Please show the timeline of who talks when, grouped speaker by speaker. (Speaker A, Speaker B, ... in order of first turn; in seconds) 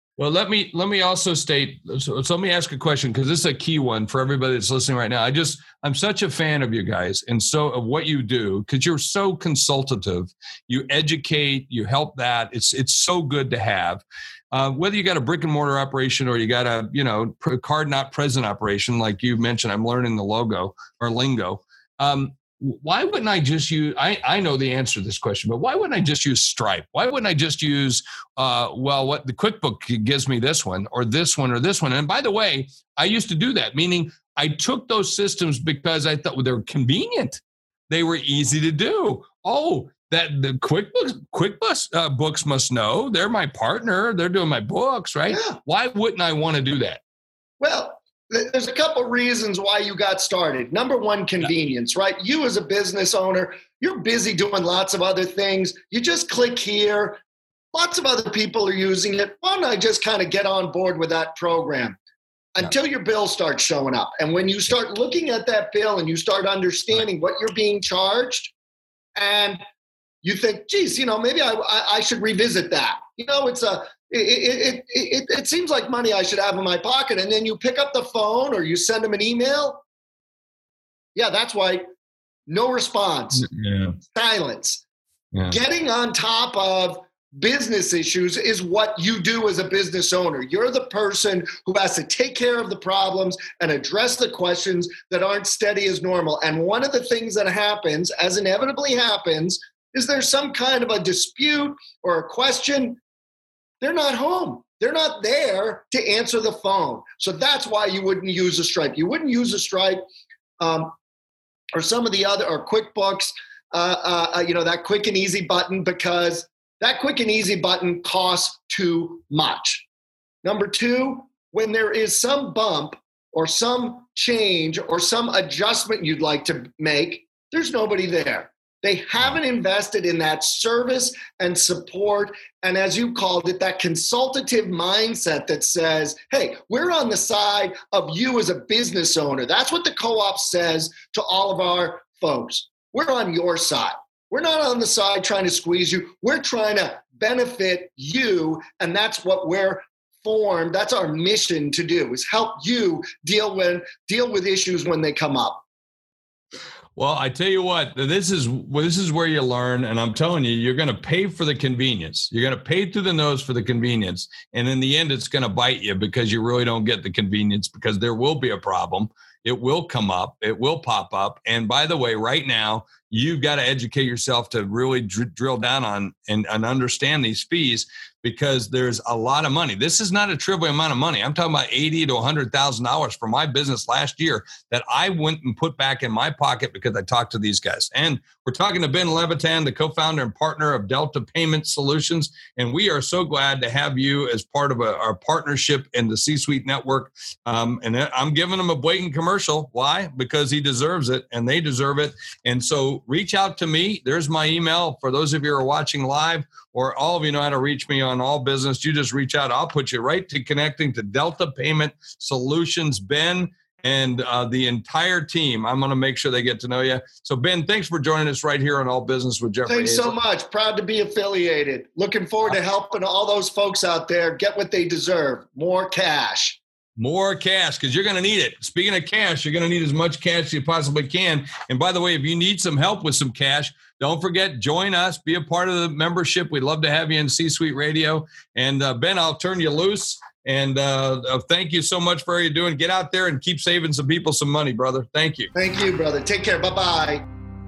Speaker A: 0.2-47.0, 83.3-84.0, 85.3-85.6, 156.9-220.2, 227.0-245.5
Speaker B: 45.3-45.6, 47.6-57.2, 57.7-62.0, 62.5-68.5, 69.2-69.6, 70.2-79.8, 81.1-81.8, 82.5-83.5, 84.0-84.8, 85.5-103.0, 103.8-110.0, 110.6-110.9, 111.7-119.8, 120.4-155.6, 219.7-226.6, 245.5-247.2